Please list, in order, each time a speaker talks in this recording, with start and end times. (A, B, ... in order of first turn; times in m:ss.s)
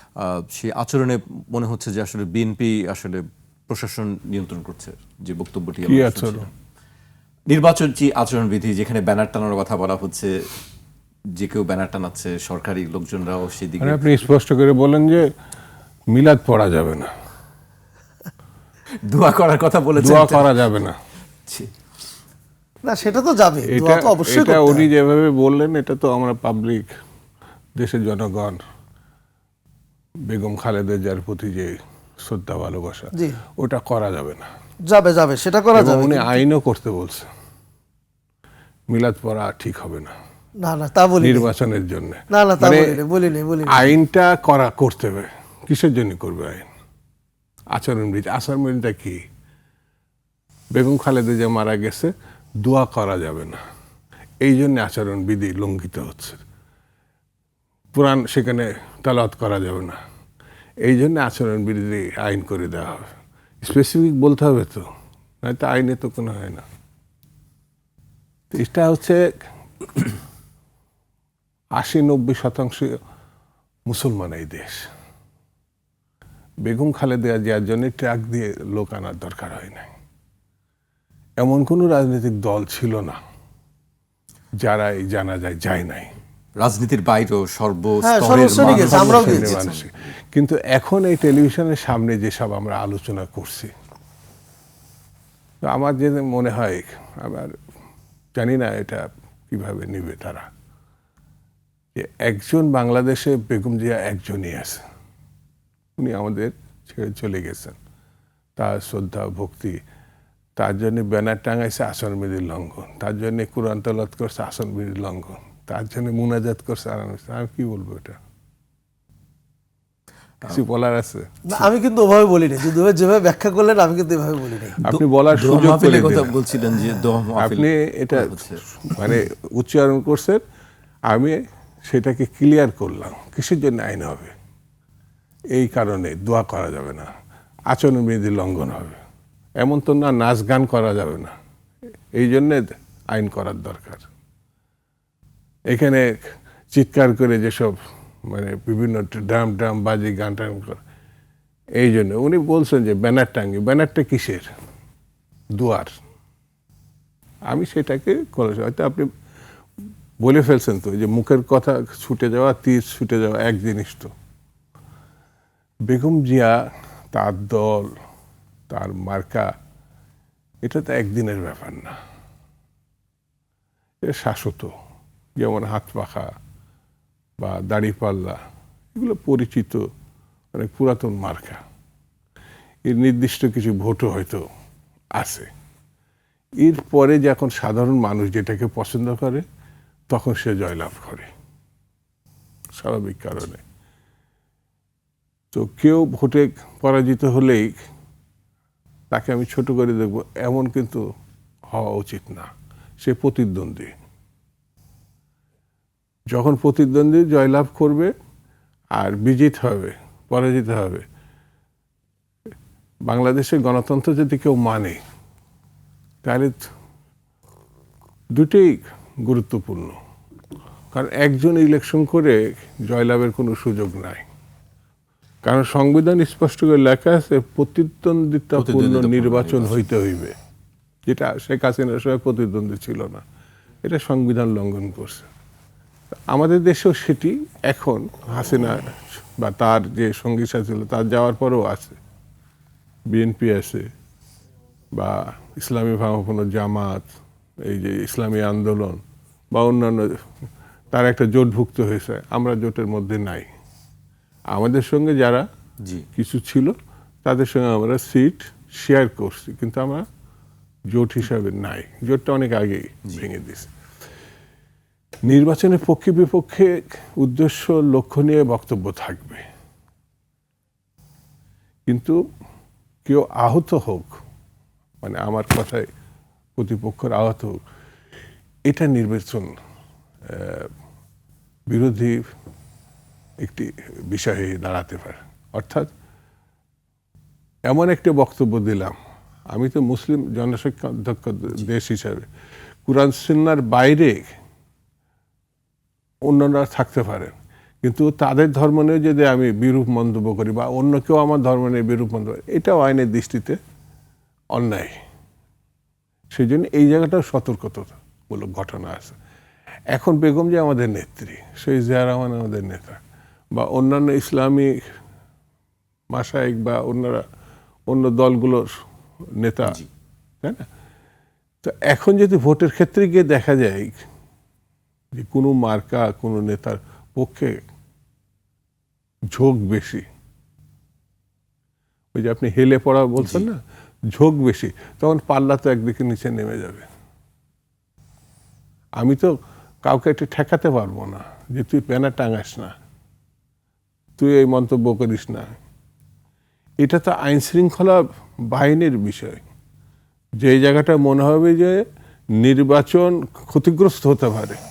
0:00.2-0:06.5 A
0:05.9-0:06.5 B
0:07.5-0:10.5 A
0:11.4-0:14.1 A
0:13.8-0:15.3 B
0:16.1-0:17.1 B
0:19.0-0:20.7 A
0:20.0-0:21.0 B
0:22.8-0:24.9 C
0:23.7-0:26.9 B
0:27.8-0:28.6 B
0:30.3-0:34.5 B
0:34.9-0:36.4 C
0:35.7-0:37.3 B
0:38.9-0:40.1 B
0:40.6-0:41.5 C
0:41.2-0:43.0 B
0:42.3-0:43.9 C
0:43.6-0:46.7 B
0:47.7-0:49.2 B
0:50.7-0:53.6 B
0:54.4-0:56.4 B
0:57.9-1:00.0 B
1:00.8-1:03.1 B
1:03.6-1:04.9 B
1:05.4-1:06.6 B
1:08.5-1:09.2 B
1:11.8-1:13.0 B
1:13.9-1:14.9 B
1:16.6-1:19.9 B
1:21.4-1:23.2 B
1:24.6-1:26.1 B
1:26.6-1:29.9 A
1:28.0-1:29.6 C
1:28.3-1:33.7 B
1:35.6-1:37.6 B
1:38.4-1:40.5 B
1:42.0-1:44.8 B
1:46.0-1:47.8 B
1:48.6-1:49.8 B
1:50.6-1:58.2 B
2:00.4-2:01.4 B
2:01.5-2:04.8 C
2:04.8-2:06.4 B
2:04.8-2:08.6 A
2:07.4-2:10.4 B
2:11.1-2:11.4 B
2:11.9-2:14.3 B
2:15.5-2:17.1 B
2:17.7-2:19.0 B
2:19.6-2:21.3 B
2:22.2-2:24.1 B
2:25.7-2:30.8 B
2:31.8-2:34.5 B
2:35.5-2:36.0 B
2:37.5-2:39.1 B
2:40.2-2:44.1 B
2:45.9-2:47.9 B
2:48.7-2:49.5 B
2:50.6-2:52.0 B
2:54.0-2:54.7 B
2:55.4-2:56.3 B
2:57.4-2:58.4 B
2:59.0-2:59.8 B
3:00.5-3:01.6 B
3:02.8-3:04.4 B
3:05.2-3:05.5 B
3:06.6-3:09.4 B
3:10.1-3:11.3 B
3:12.8-3:13.6 B
3:15.5-3:17.8 B
3:19.1-3:21.0 B
3:21.7-3:23.9 B
3:26.3-3:28.1 B
3:29.0-3:31.0 B
3:33.1-3:35.0 B
3:36.2-3:36.7 B
3:38.3-3:40.0 B
3:40.9-3:44.2 B
3:45.4-3:50.4 B
3:48.5-3:49.9 A
3:51.1-3:53.2 B
3:53.8-3:55.3 B
3:56.3-4:02.0 B
4:03.1-4:03.9 B
4:04.9-4:07.1 B
4:07.6-4:09.0 B
4:09.5-4:10.1 B
4:10.9-4:13.5 B
4:14.5-4:15.4 B
4:16.2-4:20.0 B
4:20.9-4:23.7 B
4:25.3-4:29.4 B
4:31.9-4:32.2 B
4:33.0-4:34.2 B
4:35.0-4:35.8 B
4:36.6-4:37.6 B
4:38.7-4:39.5 B
4:40.3-4:40.7 B
4:41.7-4:42.2 B
4:43.4-4:45.9 B
4:47.6-4:48.9 B
4:49.5-4:52.3 B
4:52.9-4:54.2 B
4:56.3-5:03.6 B
5:04.5-5:05.0 B
5:06.3-5:09.2 B
5:09.9-5:13.0 B
5:13.5-5:14.8 B
5:16.1-5:17.2 B
5:17.9-5:18.7 B
5:19.4-5:19.8 B
5:21.6-5:23.9 B
5:25.1-5:27.6 B
5:29.3-5:30.0 B
5:32.1-5:33.6 B
5:33.2-5:33.5 A
5:34.1-5:36.9 B
5:39.0-5:42.7 B
5:44.2-5:45.5 B
5:46.8-5:49.4 B
5:50.4-5:51.8 B
5:52.4-5:54.6 B